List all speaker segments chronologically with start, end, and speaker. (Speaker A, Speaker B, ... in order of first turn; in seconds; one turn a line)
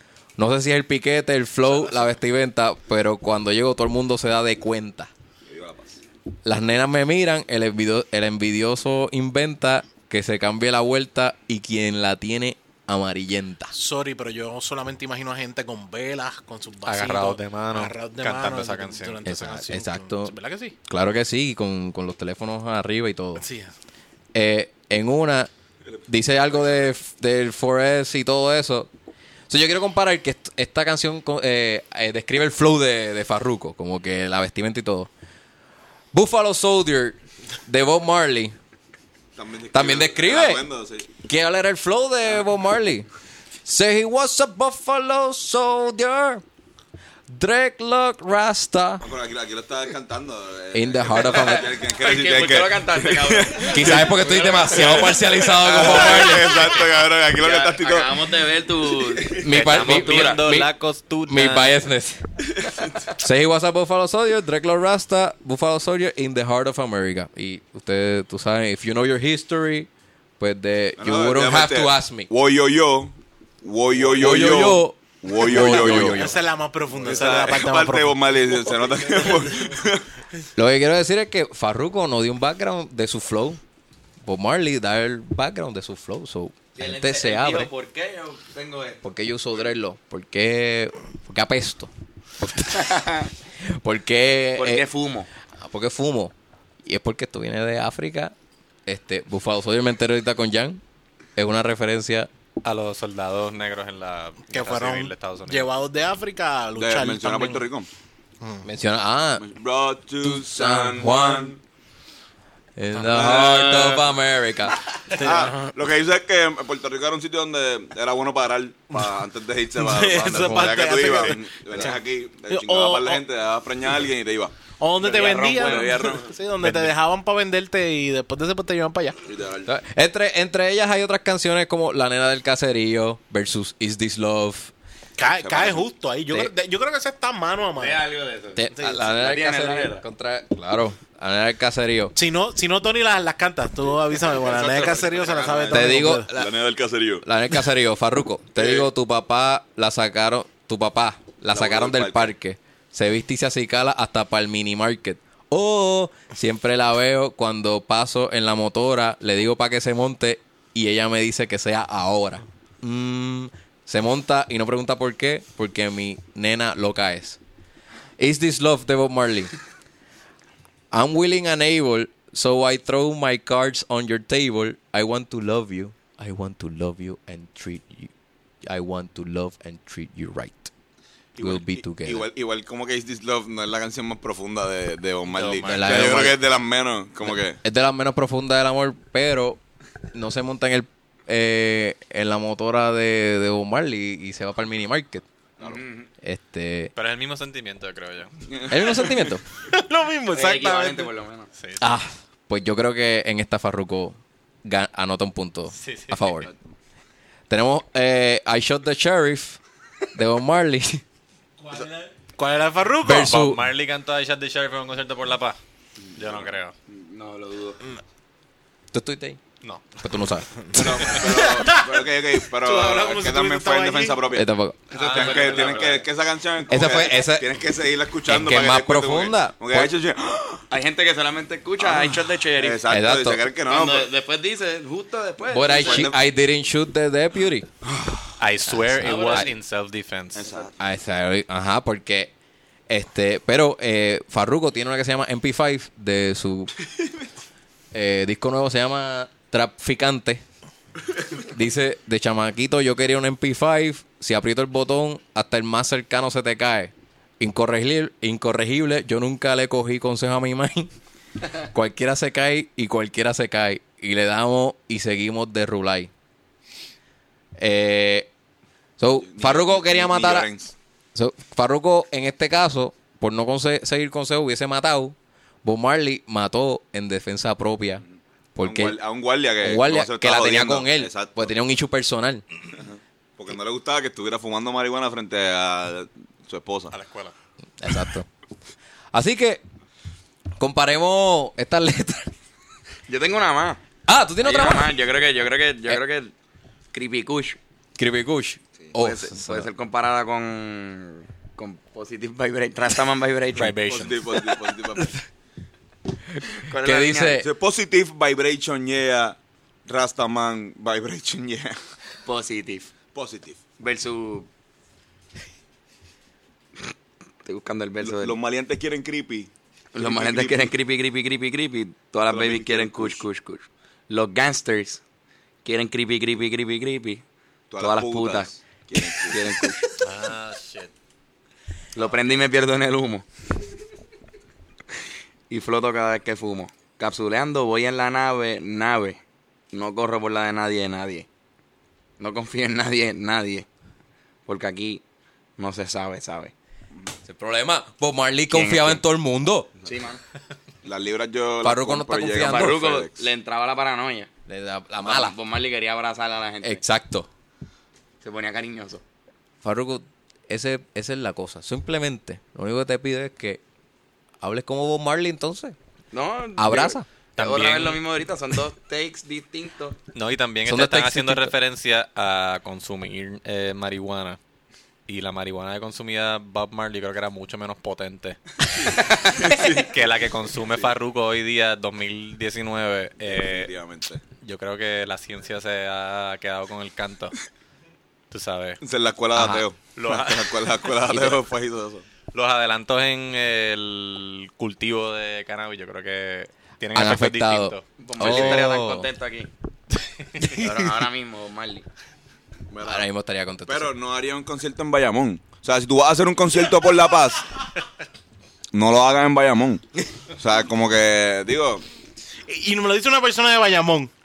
Speaker A: 0.4-5.1
Speaker B: 5.4-6.0
Speaker A: 6.4-13.7
Speaker C: 13.7-20.8
Speaker D: 16.9-19.2
Speaker A: 19.2-20.3
Speaker A: 20.9-23.4
Speaker C: 23.4-23.7
Speaker A: 24.3-25.5
Speaker A: 26.1-28.9
Speaker A: 29.5-35.1
Speaker A: 36.1-38.5
Speaker B: 39.3-41.1
Speaker A: 39.7-43.1
Speaker A: 43.6-46.4
Speaker A: 47.3-49.0
Speaker B: 49.0-54.8
Speaker A: 50.7-51.7
Speaker E: 51.3-56.6
Speaker A: 53.7-56.7
Speaker B: 55.5-58.1
Speaker E: 57.3-60.4
Speaker A: 59.4-60.7
Speaker D: 59.5-61.7
Speaker A: 61.3-62.2
Speaker A: 63.0-69.9
Speaker A: 70.4-72.3
Speaker B: 71.0-76.3
Speaker A: 74.1-76.4
Speaker C: 75.5-78.2
Speaker B: 77.0-80.1
Speaker E: 79.1-79.5
Speaker A: 80.5-83.6
Speaker A: 84.2-87.7
Speaker E: 86.7-89.0
Speaker A: 89.0-93.0
Speaker E: 92.7-93.3
Speaker A: 93.7-94.8
Speaker E: 94.5-95.3
Speaker A: 95.6-96.3
Speaker A: 96.8-98.3
Speaker A: 98.8-100.8
Speaker A: 101.3-102.3
Speaker D: 102.6-105.7
Speaker C: 104.5-107.6
Speaker B: 106.8-107.9
Speaker A: 108.6-109.4
Speaker B: 109.4-111.6
Speaker A: 110.2-111.5
Speaker A: 112.8-114.8
Speaker E: 113.1-114.0
Speaker B: 113.2-113.5
Speaker C: 115.1-115.7
Speaker B: 115.2-124.5
Speaker C: 119.8-123.2
Speaker A: 120.4-120.8
Speaker C: 124.8-129.2
Speaker E: 125.0-126.2
Speaker B: 125.0-126.3
Speaker B: 129.2-129.7
Speaker A: 129.6-134.7
Speaker C: 135.2-138.1
Speaker B: 135.2-135.9
Speaker E: 137.8-140.0
Speaker A: 138.6-142.1
Speaker C: 138.7-139.1
Speaker C: 142.1-146.3
Speaker E: 144.3-146.0
Speaker A: 145.7-146.5
Speaker B: 146.3-147.2
Speaker A: 147.2-167.4
Speaker E: 148.6-148.8
Speaker B: 151.5-152.3
Speaker A: 168.2-169.5
Speaker A: 170.9-178.1
Speaker A: 178.6-180.7
Speaker B: 181.3-187.6
Speaker A: 181.4-182.3
Speaker D: 185.3-186.1
Speaker A: 185.6-186.4
Speaker A: 187.3-189.6
Speaker A: 190.1-195.2
Speaker E: 195.6-196.1
Speaker A: 196.2-196.9
Speaker D: 196.9-198.4
Speaker E: 198.5-199.1
Speaker A: 198.7-199.4
Speaker C: 199.6-201.1
Speaker E: 200.3-201.5
Speaker D: 201.5-201.9
Speaker A: 201.8-206.5
Speaker D: 205.8-206.3
Speaker B: 206.4-206.7
Speaker A: 207.5-209.6
Speaker A: 210.1-211.0
Speaker C: 211.6-213.3
Speaker A: 213.0-213.7
Speaker D: 213.1-215.6
Speaker B: 216.1-216.5
Speaker D: 216.2-216.7
Speaker E: 216.9-217.8
Speaker A: 218.9-219.4
Speaker D: 219.6-220.1
Speaker A: 220.0-220.5
Speaker C: 220.6-224.3
Speaker B: 220.7-230.6
Speaker D: 220.9-221.2
Speaker A: 224.3-224.8
Speaker E: 224.9-226.1
Speaker D: 224.9-225.7
Speaker A: 226.7-227.5
Speaker A: 228.2-229.9
Speaker E: 230.7-232.8
Speaker B: 231.8-234.1
Speaker A: 232.9-233.4
Speaker E: 233.7-236.1
Speaker A: 235.5-237.7
Speaker B: 235.7-236.2
Speaker D: 238.4-240.4
Speaker A: 238.7-239.5
Speaker E: 239.0-239.5
Speaker B: 240.3-240.7
Speaker A: 240.8-242.3
Speaker A: 242.9-246.7
Speaker A: 247.9-250.4
Speaker A: 251.3-260.9
Speaker A: 261.7-266.1
Speaker A: 267.6-268.3
Speaker A: 269.0-270.5
Speaker B: 269.2-270.7
Speaker A: 271.1-278.0
Speaker A: 278.5-279.0
Speaker B: 278.6-281.5
Speaker A: 279.6-282.4
Speaker B: 282.7-286.9
Speaker D: 286.9-287.3
Speaker A: 287.8-288.3
Speaker A: 289.1-289.6
Speaker A: 290.6-292.3
Speaker E: 293.1-293.8
Speaker A: 294.1-294.9
Speaker E: 294.4-296.3
Speaker E: 296.9-297.6
Speaker A: 298.0-299.7
Speaker E: 298.9-303.8
Speaker D: 303.6-304.2
Speaker B: 303.8-305.1
Speaker E: 306.5-307.4
Speaker A: 306.8-307.5
Speaker B: 307.4-311.8
Speaker E: 312.2-312.9
Speaker B: 313.1-313.6
Speaker E: 313.8-314.5
Speaker E: 317.4-318.4
Speaker B: 318.0-320.7
Speaker E: 319.9-325.0
Speaker B: 322.3-323.2
Speaker E: 325.6-327.2
Speaker B: 327.7-329.8
Speaker E: 327.8-328.5
Speaker E: 329.1-329.8
Speaker D: 330.0-330.9
Speaker E: 331.9-333.2
Speaker E: 335.5-339.2
Speaker E: 339.7-341.3
Speaker E: 342.2-343.6
Speaker E: 344.5-345.0
Speaker E: 345.6-346.5
Speaker A: 347.2-349.7
Speaker E: 348.5-349.0
Speaker E: 349.8-350.2
Speaker B: 350.8-353.2
Speaker A: 351.6-352.8
Speaker E: 352.4-354.3
Speaker A: 354.5-355.3
Speaker E: 355.0-356.8
Speaker A: 356.6-357.3
Speaker E: 358.2-359.0
Speaker A: 359.6-363.6
Speaker A: 364.4-365.8
Speaker E: 366.1-370.0
Speaker A: 366.6-367.1
Speaker D: 367.4-368.0
Speaker D: 370.1-374.4
Speaker A: 370.6-371.5
Speaker D: 375.1-378.4
Speaker B: 379.5-379.9
Speaker D: 379.5-383.7
Speaker B: 383.3-384.2
Speaker D: 384.4-387.4
Speaker D: 388.3-388.8
Speaker B: 388.8-392.1
Speaker A: 389.3-389.6
Speaker D: 389.9-391.0
Speaker A: 391.1-391.4
Speaker D: 392.3-398.7
Speaker A: 396.9-399.1
Speaker E: 398.0-399.5
Speaker A: 400.4-400.7
Speaker E: 400.5-401.9
Speaker B: 402.7-403.1
Speaker A: 402.8-403.9
Speaker B: 403.7-407.4
Speaker B: 408.7-411.8
Speaker C: 412.5-414.1